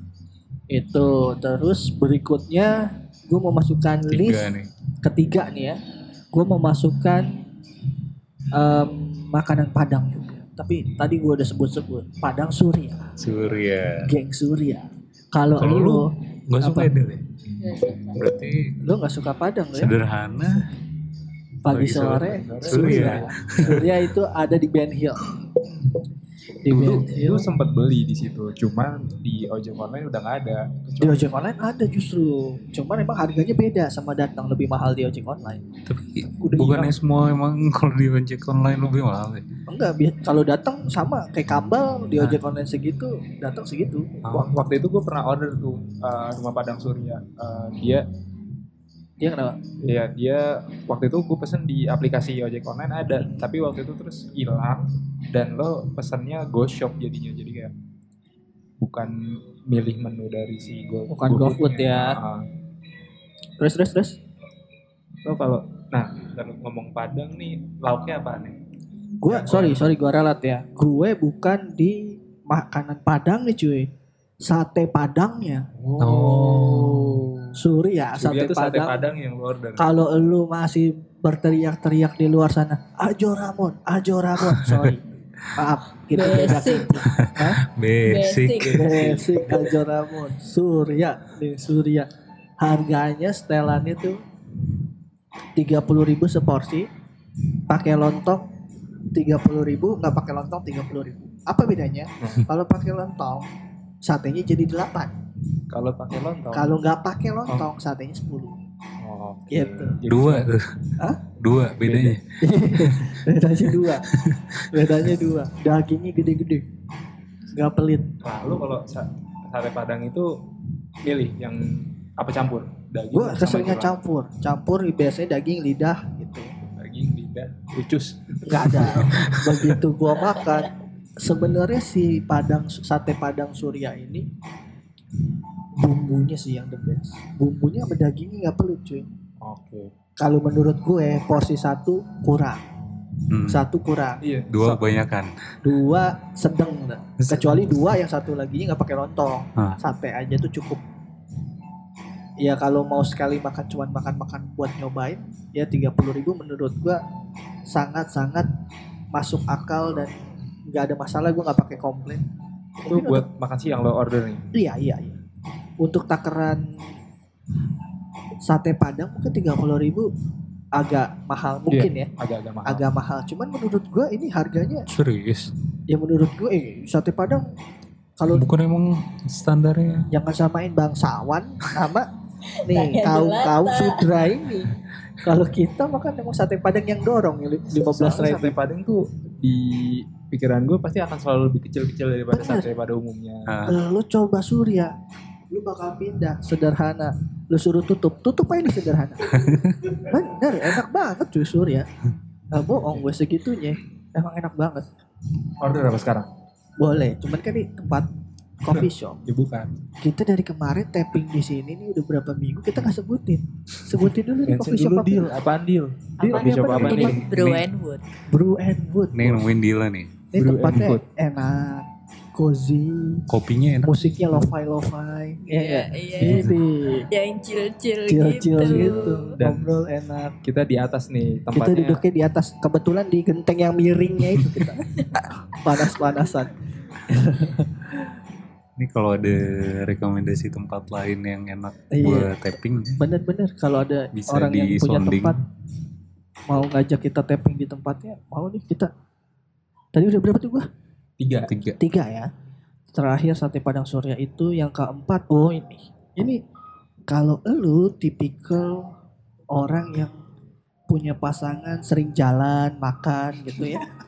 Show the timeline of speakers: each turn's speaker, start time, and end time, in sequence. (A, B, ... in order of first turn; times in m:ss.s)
0:00.7-0:04.5 A
0:04.1-0:04.7 B
0:05.0-0:05.8 A
0:06.3-0:07.4 A
0:08.5-0:13.1 A
0:13.2-0:14.1 B
0:14.0-0:16.1 A
0:15.6-0:17.2 B
0:16.6-0:16.9 A
0:17.6-0:18.2 C
0:18.1-0:18.8 B
0:18.8-0:19.9 A
0:19.7-0:20.7 B
0:21.6-0:25.2 A
0:21.8-0:23.8 B
0:21.8-0:23.9 D
0:26.6-0:27.5 A
0:26.7-0:31.3 D
0:31.0-0:35.6 A
0:35.9-0:39.4 B
0:36.4-0:36.9 D
0:39.7-0:44.5 A
0:44.2-0:48.0 D
0:49.2-0:49.6 A
0:49.8-0:57.7 D
0:58.8-1:02.5 D
1:01.1-1:02.2 A
1:03.6-1:04.2 A
1:05.2-1:08.6 D
1:09.2-1:13.9 A
1:09.2-1:09.9 D
1:14.4-1:15.7 A
1:15.8-1:17.4 D
1:16.0-1:17.0 B
1:17.5-1:19.0 A
1:18.1-1:19.9 D
1:19.8-1:25.0 A
1:25.6-1:27.6 A
1:26.1-1:27.0 C
1:27.1-1:29.0 B
1:28.0-1:28.9 C
1:28.7-1:32.1 A
1:28.8-1:29.5 D
1:32.6-1:34.2 A
1:35.6-1:36.9 A
1:37.7-1:38.5 A
1:39.1-1:43.5 A
1:42.2-1:42.5 D
1:44.0-1:45.1 A
1:45.7-1:46.7 D
1:46.5-1:48.6 A
1:49.0-1:50.5 D
1:49.5-1:50.0 A
1:50.0-1:52.2 B
1:51.8-1:52.2 D
1:52.4-1:54.1 A
1:54.1-1:54.6 B
1:54.7-1:56.6 A
1:57.5-1:58.1 A
1:58.2-2:00.4 D
2:01.0-2:03.9 D
2:03.1-2:06.5 A
2:06.7-2:09.3 D
2:08.4-2:14.3 A
2:15.8-2:19.1 A
2:19.4-2:19.9 D
2:20.2-2:22.6 A
2:23.3-2:23.6 B
2:23.5-2:24.2 A
2:24.2-2:24.9 D
2:24.5-2:25.3 B
2:25.6-2:30.8 A
2:27.2-2:27.7 B
2:32.4-2:37.0 A
2:37.7-2:38.5 A
2:39.1-2:40.1 A
2:40.7-2:42.2 A
2:42.8-2:43.2 A
2:42.9-2:44.4 D
2:44.5-2:45.2 A
2:45.8-2:46.6 A
2:48.4-2:50.1 A
2:50.8-2:52.1 A
2:51.7-2:52.8 D
2:52.6-2:54.9 A
2:54.9-2:55.5 B
2:55.9-2:57.4 A
2:58.2-2:58.5 A
2:58.3-3:00.1 B
3:00.1-3:02.1 A
3:02.5-3:04.1 C
3:02.6-3:08.6 A
3:07.8-3:13.5 D
3:12.3-3:12.7 A
3:13.5-3:13.8 B
3:13.6-3:14.9 A
3:15.5-3:19.4 A
3:20.0-3:21.9 A
3:22.5-3:24.8 A
3:25.6-3:26.3 D
3:26.8-3:28.1 A
3:28.6-3:29.2 A
3:28.7-3:29.7 D
3:30.0-3:35.3 A
3:34.4-3:37.6 D
3:36.2-3:37.2 A
3:36.2-3:38.0 C
3:38.3-3:39.4 A
3:39.1-3:40.1 B
3:40.3-3:43.2 A
3:40.4-3:41.0 D
3:43.3-3:44.4 B
3:43.8-3:47.1 A
3:45.4-3:46.6 C
3:47.1-3:49.4 C
3:48.1-3:50.3 A
3:48.8-3:49.7 D
3:50.4-3:52.0 D
3:51.5-3:58.0 A
3:58.8-4:02.9 B
4:01.9-4:02.3 A
4:03.0-4:05.4 A
4:04.1-4:05.4 B
4:06.5-4:08.9 A
4:09.9-4:10.6 A
4:11.2-4:11.5 D
4:11.5-4:11.8 B
4:11.8-4:12.3 A
4:12.9-4:16.4 A
4:17.1-4:18.9 A
4:19.5-4:20.2 A
4:20.9-4:23.8 A